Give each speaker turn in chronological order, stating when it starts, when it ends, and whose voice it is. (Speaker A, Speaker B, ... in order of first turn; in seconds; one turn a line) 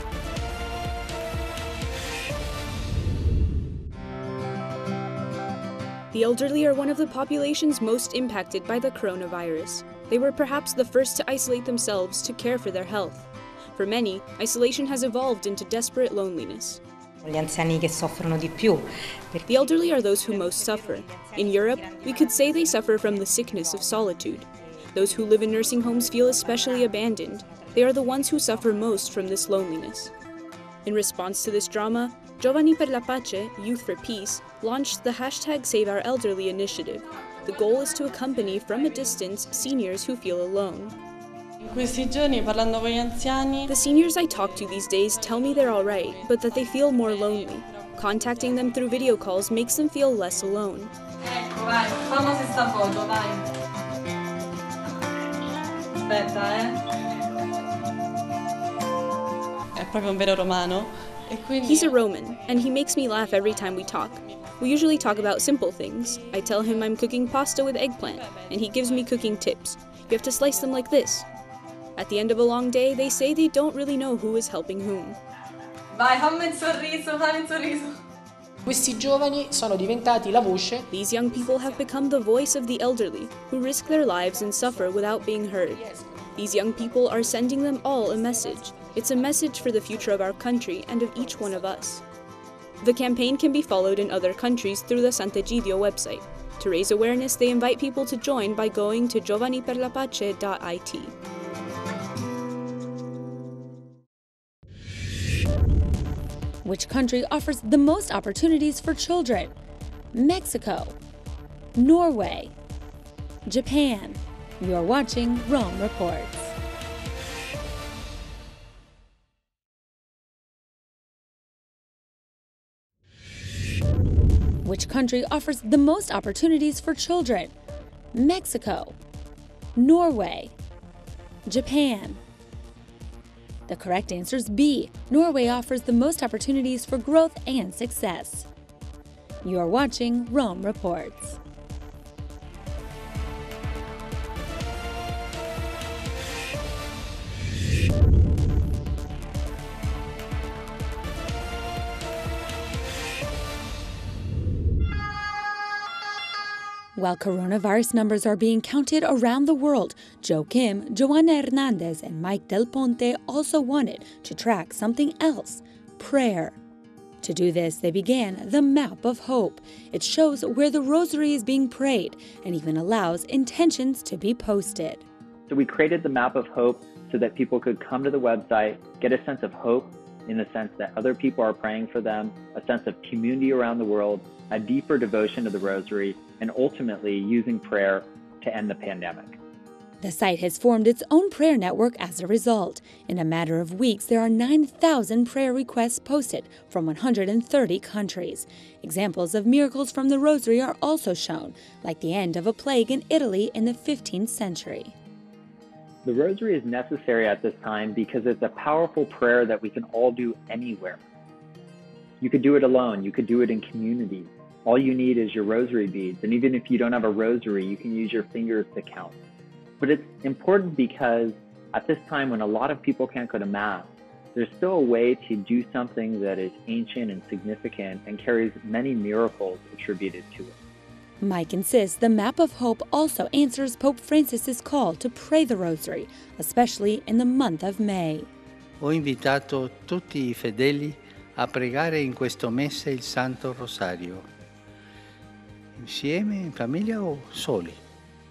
Speaker A: 6.1-16.8
Speaker B: 17.2-19.6
Speaker A: 19.5-30.1
Speaker A: 30.9-41.0
Speaker C: 41.6-43.7
Speaker A: 43.7-50.9
Speaker C: 51.2-53.4
Speaker C: 56.0-56.8
Speaker C: 59.8-61.9
Speaker A: 61.6-71.3
Speaker A: 72.0-75.2
Speaker C: 75.9-78.0
Speaker D: 78.7-80.9
Speaker A: 80.9-92.0
Speaker A: 92.8-101.1
Speaker E: 106.6-109.5
Speaker E: 110.1-111.0
Speaker E: 111.8-112.5
Speaker E: 113.5-116.5
Speaker E: 124.6-127.5
Speaker E: 128.1-129.0
Speaker E: 129.8-130.5
Speaker E: 131.5-132.2
Speaker E: 133.7-138.5
Speaker E: 139.4-141.4
Speaker E: 157.0-166.6
Speaker E: 167.2-175.1
Speaker F: 175.5-189.4
Speaker E: 190.0-204.9
Speaker F: 206.0-211.0
Speaker F: 212.2-219.1
Speaker F: 219.8-230.6
Speaker E: 231.2-238.3
Speaker G: 238.8-244.3
Speaker G: 245.8-247.8